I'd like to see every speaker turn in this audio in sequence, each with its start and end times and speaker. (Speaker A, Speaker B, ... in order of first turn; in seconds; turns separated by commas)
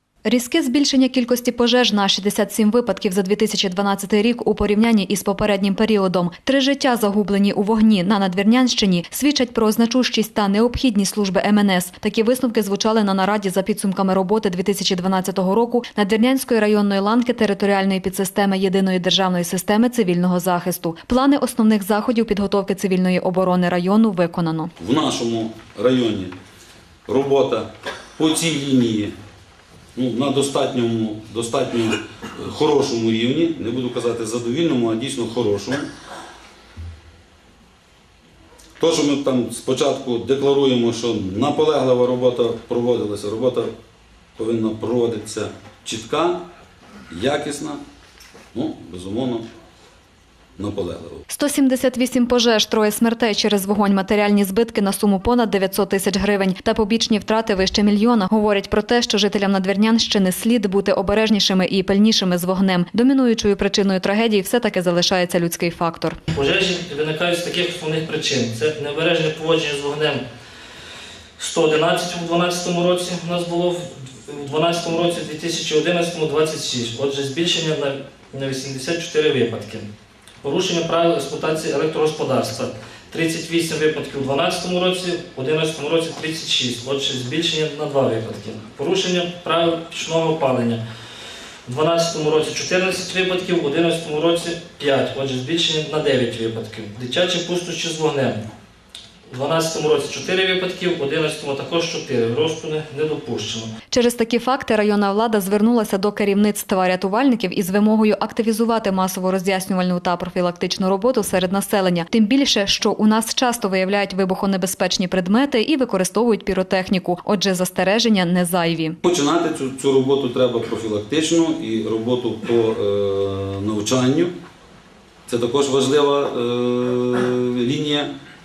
Speaker A: 0.2-24.7, Speaker B: 24.8-26.3, Speaker B: 27.1-29.1, Speaker B: 29.9-35.9, Speaker B: 38.8-43.7, Speaker B: 44.4-46.5, Speaker B: 47.1-47.8, Speaker B: 48.5-49.5, Speaker B: 50.6-51.2, Speaker A: 51.3-66.2, Speaker C: 66.3-70.2, Speaker C: 71.4-79.9, Speaker C: 80.4-90.8, Speaker C: 91.7-98.4, Speaker C: 99.3-103.7, Speaker A: 103.9-119.0, Speaker B: 119.0-124.3, Speaker B: 125.3-128.1